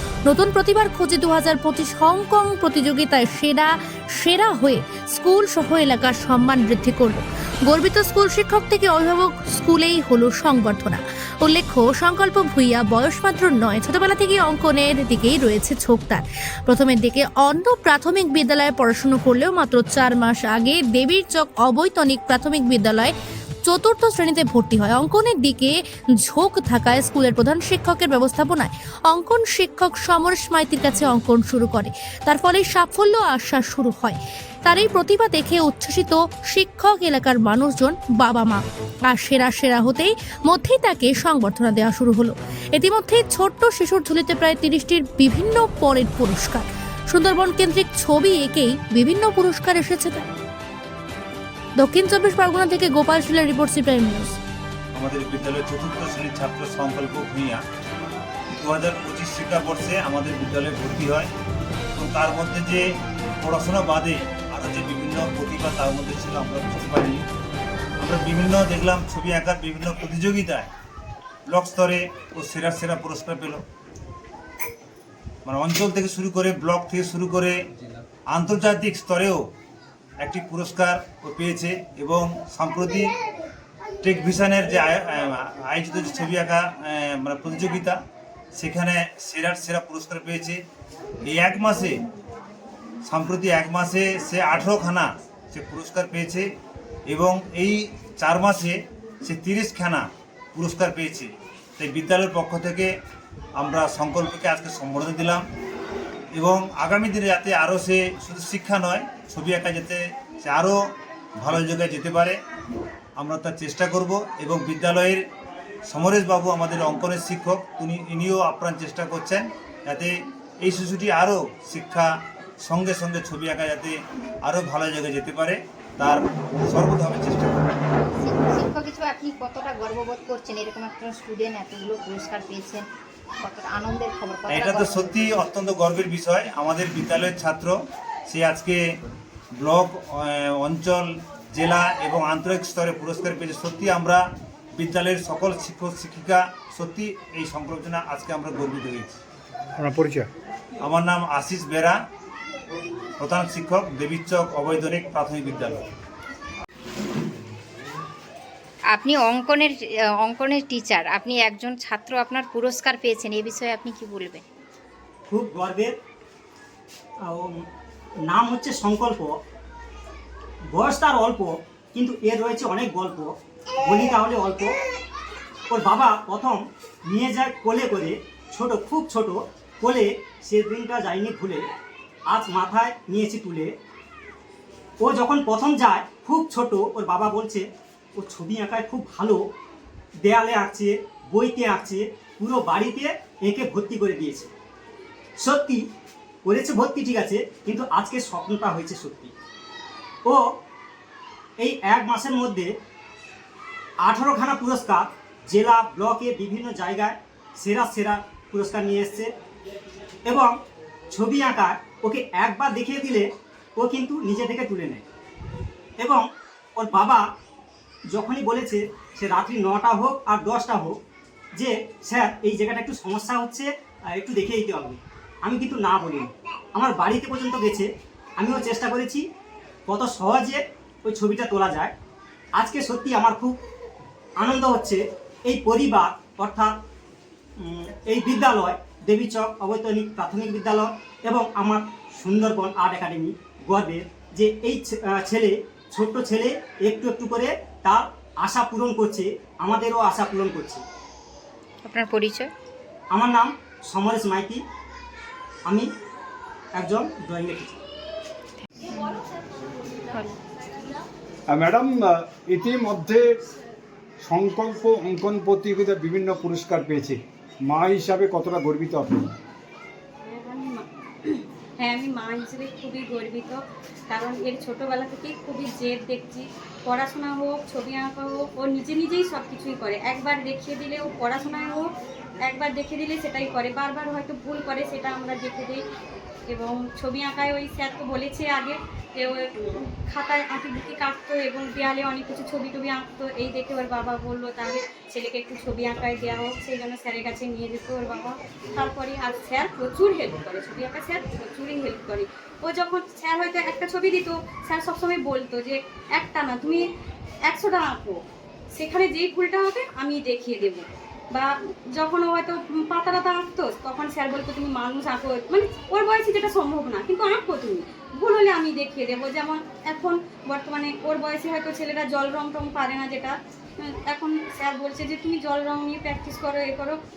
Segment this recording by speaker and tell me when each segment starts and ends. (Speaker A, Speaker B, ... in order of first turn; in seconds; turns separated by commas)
Speaker A: 0.3-23.1, Speaker A: 23.6-50.3, Speaker A: 51.8-54.4, Speaker B: 55.0-57.6, Speaker B: 58.5-61.3, Speaker B: 62.0-62.9, Speaker B: 63.4-67.2, Speaker B: 68.0-70.7, Speaker B: 71.5-73.6, Speaker B: 75.5-77.6, Speaker B: 78.3-79.5, Speaker B: 80.2-83.1, Speaker B: 84.0-88.0, Speaker B: 88.5-90.6, Speaker B: 91.2-91.9, Speaker B: 93.1-96.5, Speaker B: 97.1-102.9, Speaker B: 103.6-105.4, Speaker B: 106.4-110.8, Speaker B: 111.4-112.4, Speaker B: 113.2-115.2, Speaker B: 115.9-122.1, Speaker B: 122.6-127.7, Speaker C: 128.0-132.9, Speaker C: 133.4-135.4, Speaker B: 134.5-137.8, Speaker B: 138.3-138.8, Speaker B: 139.6-144.2, Speaker B: 144.8-149.2, Speaker D: 149.8-150.3, Speaker B: 150.8-152.0, Speaker B: 153.2-155.8, Speaker C: 158.9-164.4, Speaker E: 165.3-165.9, Speaker E: 168.3-169.3, Speaker E: 170.7-174.7, Speaker E: 175.7-181.7, Speaker E: 182.3-183.7, Speaker E: 185.0-187.6, Speaker E: 188.2-189.4, Speaker E: 190.2-194.5, Speaker E: 195.4-195.8, Speaker E: 196.4-199.3, Speaker E: 201.6-202.7, Speaker E: 204.1-209.3, Speaker E: 210.3-210.5, Speaker E: 211.1-215.0, Speaker E: 216.8-217.2, Speaker E: 218.1-221.0, Speaker E: 221.6-229.2, Speaker E: 229.9-231.9, Speaker E: 232.6-233.6, Speaker E: 234.4-236.8, Speaker E: 237.6-250.8, Speaker C: 251.8-252.5, Speaker E: 253.1-254.6, Speaker E: 256.8-257.8, Speaker C: 260.1-260.4, Speaker D: 261.5-263.3, Speaker D: 264.2-269.3, Speaker F: 270.2-273.6, Speaker F: 274.1-281.9, Speaker F: 282.4-285.8, Speaker F: 286.5-306.9, Speaker F: 307.5-308.2, Speaker F: 308.8-323.4, Speaker F: 324.1-327.0